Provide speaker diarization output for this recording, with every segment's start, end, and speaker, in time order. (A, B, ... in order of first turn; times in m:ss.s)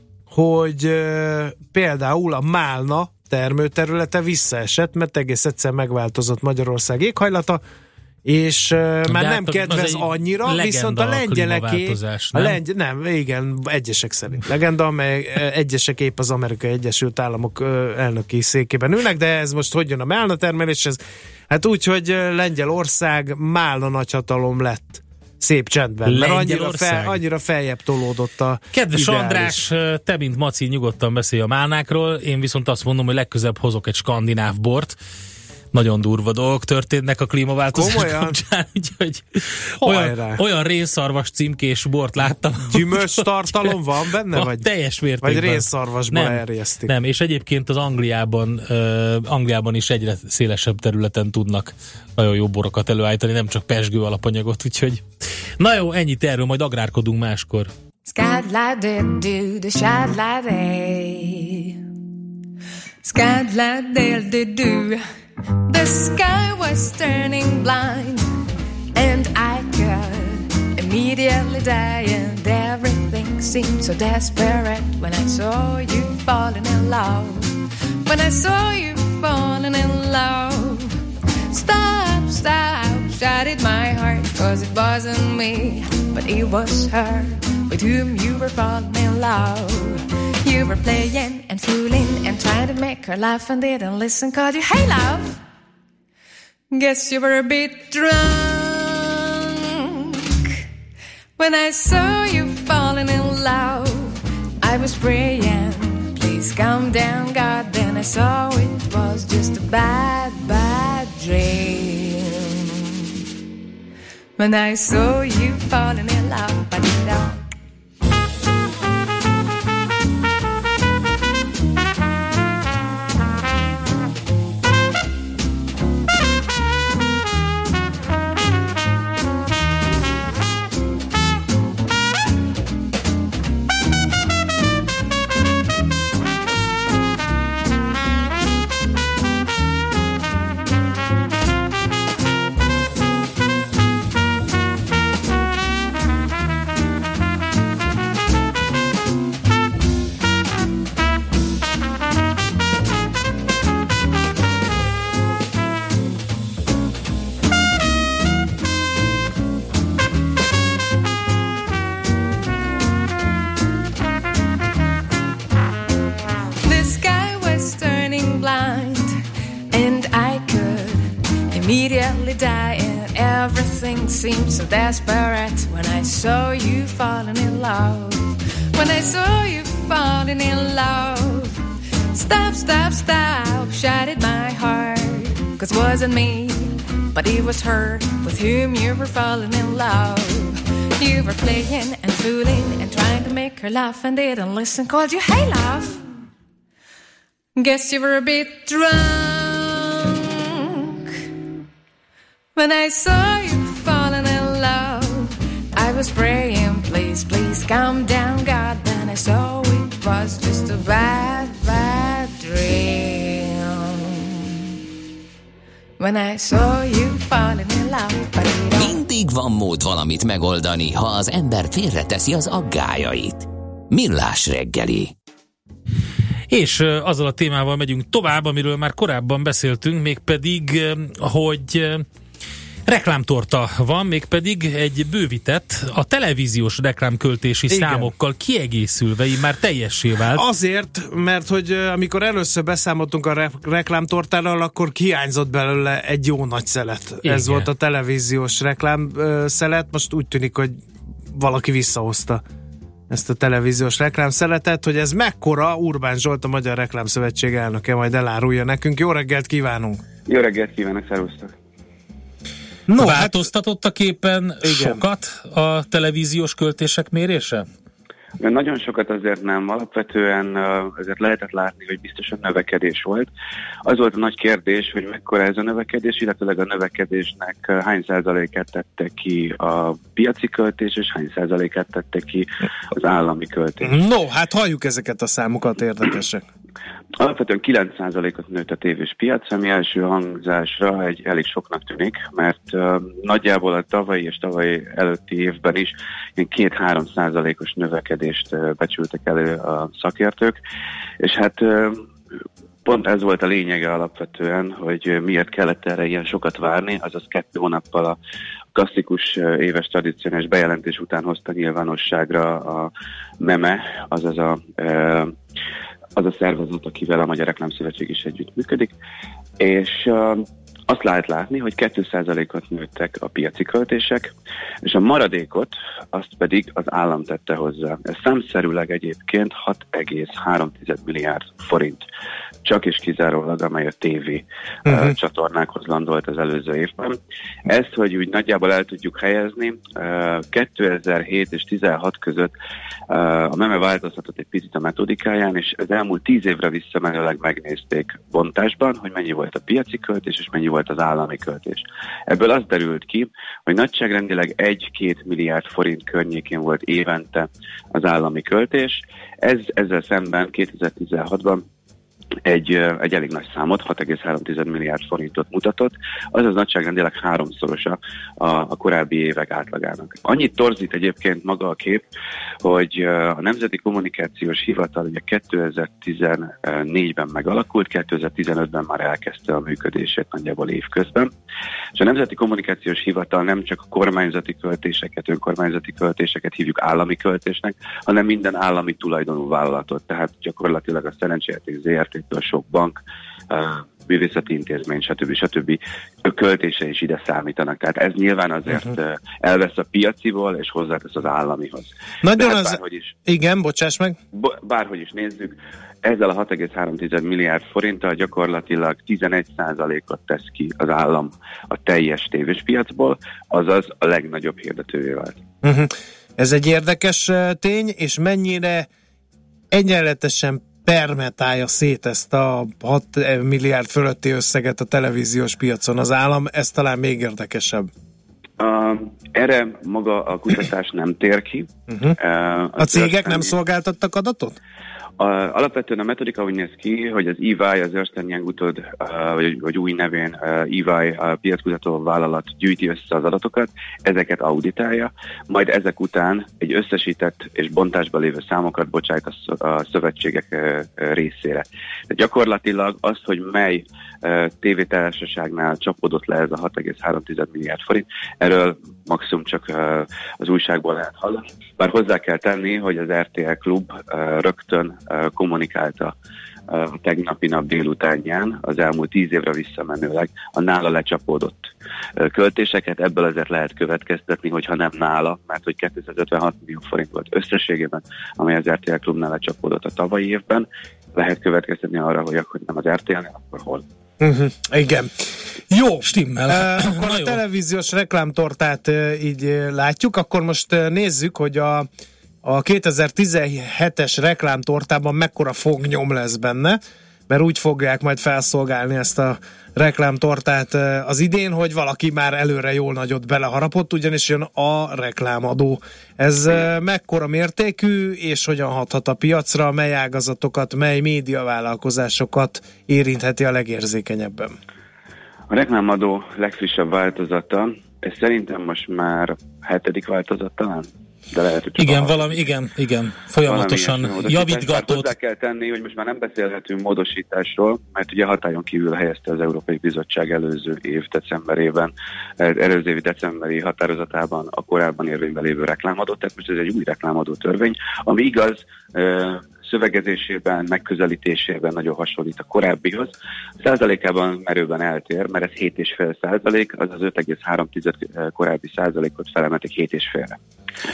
0:00.3-0:07.6 A
0:08.2-0:29.6 A
0:09.1-0:12.6 B
0:26.1-0:27.2 B
0:28.7-0:35.0 B
0:35.7-0:43.8 B
0:37.7-0:38.4 A
0:39.8-0:40.4 A
0:42.7-0:44.7 A
0:44.3-0:55.0 B
0:45.2-0:47.0 A
0:55.6-0:57.7 B
0:58.0-1:01.8 C
1:03.0-1:05.0 C
1:05.7-1:08.3 C
1:08.9-1:20.9 C
1:21.5-1:35.4 C
1:36.7-1:40.6 C
1:41.4-1:53.1 C
1:54.4-1:57.4 C
2:46.6-2:49.2 C
2:49.7-3:01.6 C
3:02.1-3:16.0 C
3:17.6-3:21.2 C
3:22.6-3:34.8 C
3:36.0-3:39.0 C
3:38.8-3:45.1 D
3:46.5-3:52.0 B
3:52.9-4:00.4 B
3:57.7-3:58.1 A
4:00.3-4:10.8 A
4:07.2-4:07.7 B
4:11.3-4:12.4 A
4:13.1-4:20.0 A
4:20.3-4:21.5 E
4:22.9-4:23.5 A
4:23.0-4:27.7 B
4:24.6-4:25.0 A
4:28.4-4:33.3 E
4:33.9-4:43.9 E
4:43.8-4:46.4 A
4:47.2-5:00.6 E
5:01.2-5:02.0 E
5:02.8-5:08.2 E
5:08.8-5:12.9 E
5:13.4-5:15.3 E
5:16.2-5:18.9 E
5:19.6-5:24.3 E
5:24.9-5:32.0 E
5:32.6-5:37.2 E
5:34.9-5:35.2 A
5:37.7-5:42.5 E
5:43.1-6:01.6 E
6:02.5-6:12.0 E
6:12.6-6:21.3 E
6:22.0-6:33.0 E
6:33.5-6:43.1 E
6:42.2-6:44.2 A
6:44.4-6:55.4 E
6:55.6-6:58.9 A
6:59.7-7:07.9 A
7:08.6-7:13.5 E
7:11.9-7:12.2 A
7:12.8-7:14.6 A
7:15.2-7:46.1 E
7:46.7-7:51.7 E
7:52.2-8:03.8 E
8:04.2-8:05.1 A
8:05.7-8:11.9 A
8:06.0-8:07.4 B
8:12.4-8:34.6 A
8:35.5-8:42.5 E
8:41.8-8:45.1 B
8:43.4-9:10.4 E